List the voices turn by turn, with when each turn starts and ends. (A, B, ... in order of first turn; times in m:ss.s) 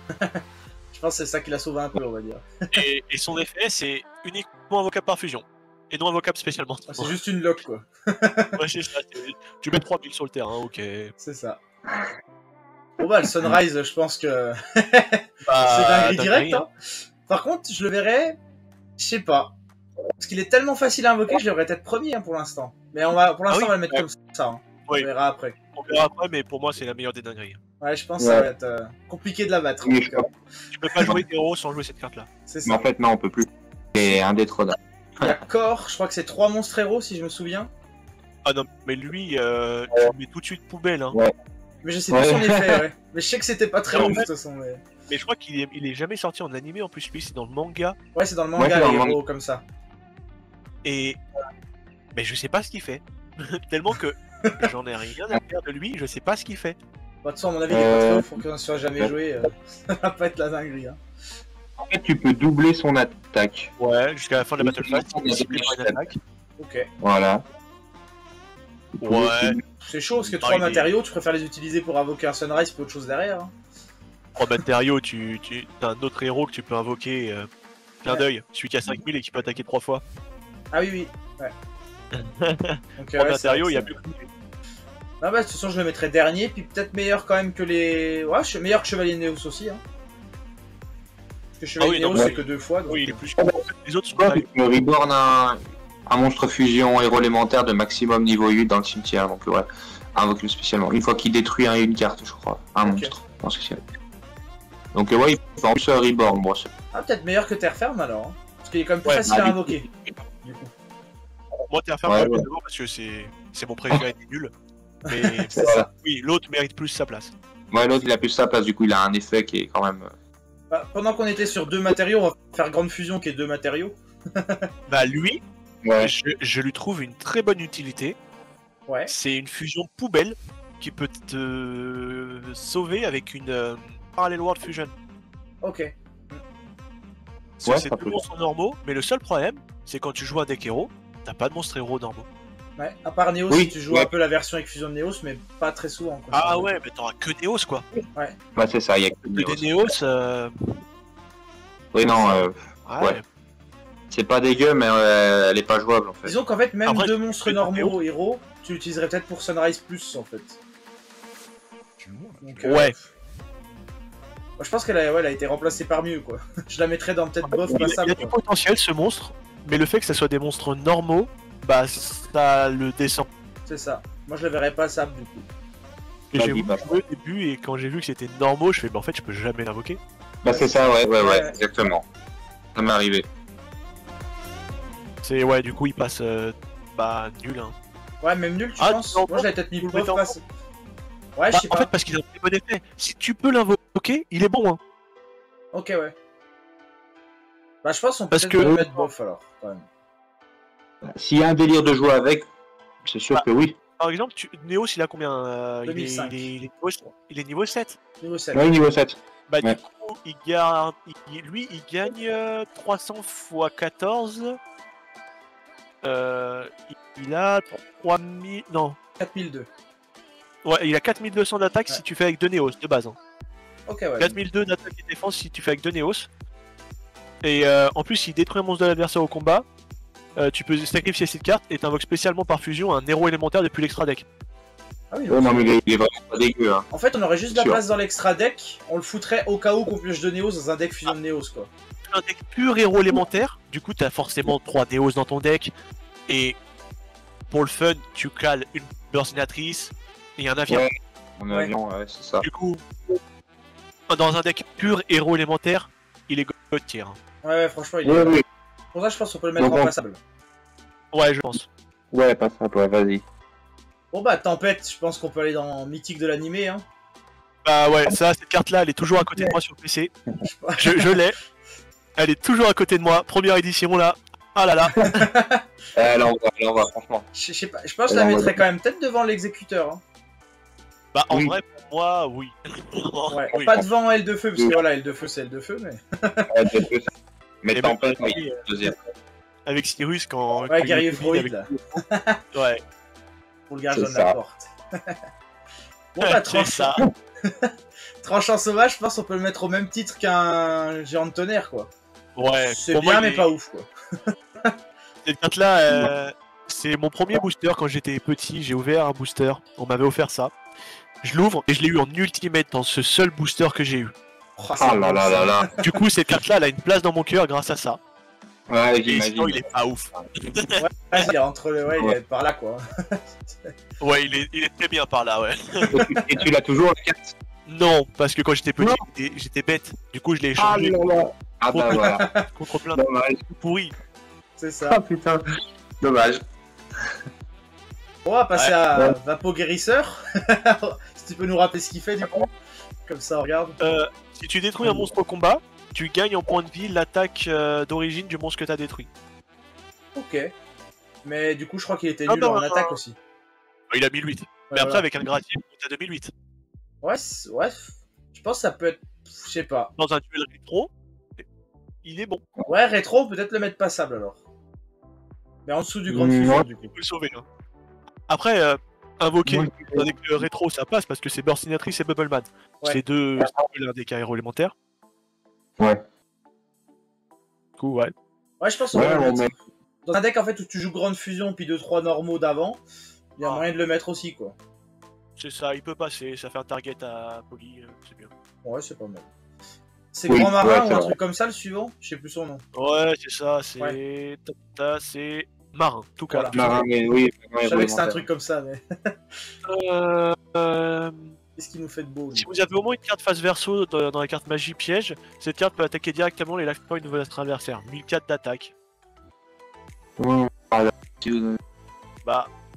0:00.1-0:00.4 A
0:00.9-0:02.8 A
0:02.7-0:07.2 B
0:06.9-0:08.6 A
0:08.6-0:11.1 B
0:11.2-0:11.6 A
0:13.0-0:16.7 A
0:15.4-0:16.6 B
0:17.3-0:18.4 A
0:19.0-0:19.5 A
0:20.2-0:25.6 A
0:23.5-0:24.0 B
0:25.8-0:27.6 B
0:27.8-0:30.3 A
0:28.2-0:28.5 C
0:29.8-0:30.3 C
0:30.7-0:32.3 B
0:32.5-0:32.8 A
0:32.6-0:35.4 C
0:35.2-0:37.7 A
0:38.4-0:41.2 B
0:41.8-0:44.8 A
0:42.1-0:42.8 C
0:43.9-0:44.3 B
0:45.1-0:48.0 B
0:48.1-0:49.6 A
0:48.6-0:49.2 C
0:50.8-0:51.2 B
0:52.1-0:56.8 B
0:57.2-1:01.0 A
0:57.7-0:58.4 C
1:01.8-1:03.7 C
1:03.8-1:06.2 B
1:04.6-1:06.1 C
1:06.6-1:06.9 A
1:07.0-1:07.4 C
1:09.0-1:09.6 B
1:09.0-1:09.6 C
1:09.8-1:13.5 A
1:10.4-1:10.9 B
1:14.4-1:17.5 B
1:18.0-1:20.0 B
1:20.7-1:21.5 A
1:22.1-1:24.3 B
1:23.0-1:24.0 A
1:25.2-1:29.8 A
1:31.6-1:33.2 A
1:31.8-1:34.4 B
1:33.4-1:33.6 C
1:34.2-1:43.8 C
1:42.8-1:43.2 A
1:44.9-1:46.7 C
1:46.9-1:49.9 A
1:49.2-1:49.9 C
1:50.4-1:50.7 A
1:51.7-1:54.5 B
1:52.1-1:52.4 C
1:55.0-1:55.8 A
1:55.1-1:57.3 B
1:55.6-1:55.9 C
1:57.7-2:00.1 C
2:00.7-2:04.7 A
2:04.9-2:05.4 B
2:05.8-2:06.1 C
2:06.0-2:08.2 B
2:08.9-2:09.1 A
2:09.1-2:14.9 B
2:15.6-2:16.4 A
2:17.6-2:22.3 B
2:17.7-2:18.2 C
2:22.8-2:26.7 A
2:23.5-2:24.1 C
2:26.3-2:27.9 B
2:28.6-2:29.7 C
2:29.3-2:30.8 B
2:31.9-2:33.2 C
2:32.0-2:33.2 B
2:34.1-2:36.3 C
2:36.2-2:40.6 A
2:36.9-2:38.0 B
2:42.4-2:43.0 A
2:42.6-2:42.9 B
2:44.6-2:48.4 A
2:47.4-2:53.3 B
2:53.7-2:55.5 A
2:56.3-3:00.0 B
2:56.4-2:56.8 C
3:00.4-3:02.0 C
3:00.5-3:01.6 A
3:02.8-3:03.3 C
3:05.2-3:07.8 B
3:08.2-3:10.4 A
3:08.8-3:10.3 B
3:11.4-3:11.9 A
3:11.5-3:14.8 B
3:15.7-3:16.1 A
3:17.8-3:19.9 A
3:18.3-3:19.1 B
3:21.0-3:22.5 C
3:23.0-3:23.8 C
3:24.0-3:28.0 B
3:25.9-3:26.5 A
3:28.2-3:28.7 A
3:28.5-3:29.8 C
3:29.5-3:34.6 B
3:36.0-3:39.0 B
3:39.2-3:39.7 A
3:40.6-3:43.2 B
3:43.9-3:44.4 A
3:44.2-3:46.3 B
3:47.4-3:49.6 B
3:50.4-3:54.2 B
3:55.1-3:55.7 A
3:55.3-3:56.9 C
3:56.9-4:01.7 A
3:57.5-3:57.8 C
4:02.1-4:05.7 B
4:06.3-4:06.6 B
4:07.5-4:10.8 B
4:10.7-4:12.5 C
4:12.4-4:13.2 B
4:14.1-4:17.2 B
4:17.4-4:18.4 A
4:18.0-4:18.4 C
4:18.9-4:20.2 A
4:19.6-4:19.9 C
4:21.1-4:21.7 B
4:22.1-4:23.2 C
4:24.1-4:26.8 A
4:27.6-4:30.1 B
4:30.4-4:31.1 A
4:30.8-4:31.4 B
4:32.2-4:35.1 B
4:35.0-4:35.6 A
4:35.9-4:37.3 C
4:37.3-4:40.0 A
4:38.1-4:38.6 C
4:41.1-4:43.8 B
4:41.3-4:41.6 C
4:43.3-4:46.5 A
4:43.5-4:43.9 C
4:44.6-4:44.8 C
4:46.5-4:47.1 C
4:47.6-4:49.0 C
4:47.8-4:48.6 B
4:49.6-4:51.7 B
4:50.7-4:52.4 A
4:52.5-4:52.8 B
4:53.7-4:55.2 A
4:53.9-4:54.4 C
4:56.1-4:57.7 A
4:56.2-4:57.0 B
4:58.2-5:01.9 A
5:02.4-5:03.5 B
5:02.6-5:03.9 A
5:05.2-5:10.5 B
5:11.2-5:14.1 B
5:14.6-5:15.9 A
5:14.8-5:15.7 C
5:15.8-5:18.0 B
5:18.7-5:20.2 C
5:19.1-5:21.3 B
5:20.8-5:23.7 A
5:24.0-5:26.0 B
5:25.9-5:27.3 C
5:25.9-5:26.4 A
5:27.7-5:31.0 B
5:30.6-5:32.3 C
5:31.7-5:34.0 B
5:31.9-5:32.4 A
5:32.9-5:33.4 C
5:34.6-5:35.0 A
5:34.9-5:35.4 C
5:36.0-5:36.4 C
5:38.3-5:42.5 A
5:43.1-5:43.8 A
5:43.8-5:49.1 B
5:50.2-5:50.5 A
5:51.2-5:53.2 A
5:52.3-5:53.0 B
5:53.9-5:56.3 B
5:54.7-5:55.0 A
5:57.0-5:59.9 A
6:00.0-6:01.4 B
6:02.0-6:02.4 B
6:02.7-6:04.4 A
6:05.6-6:06.9 A
6:06.1-6:06.6 C
6:06.9-6:07.4 B
6:08.3-6:14.7 B
6:09.4-6:10.1 C
6:17.8-6:18.1 B
6:18.6-6:19.5 A
6:18.9-6:19.5 C
6:20.1-6:22.8 A
6:23.4-6:24.6 A
6:25.4-6:28.3 B
6:28.6-6:29.3 A
6:30.1-6:32.6 A
6:30.3-6:31.1 C
6:32.7-6:36.8 B
6:36.3-6:36.7 A
6:36.5-6:38.2 C
6:37.6-6:39.1 A
6:39.6-6:41.4 B
6:41.6-6:42.5 A
6:42.4-6:48.7 B
6:50.2-6:51.6 C
6:52.2-6:52.5 B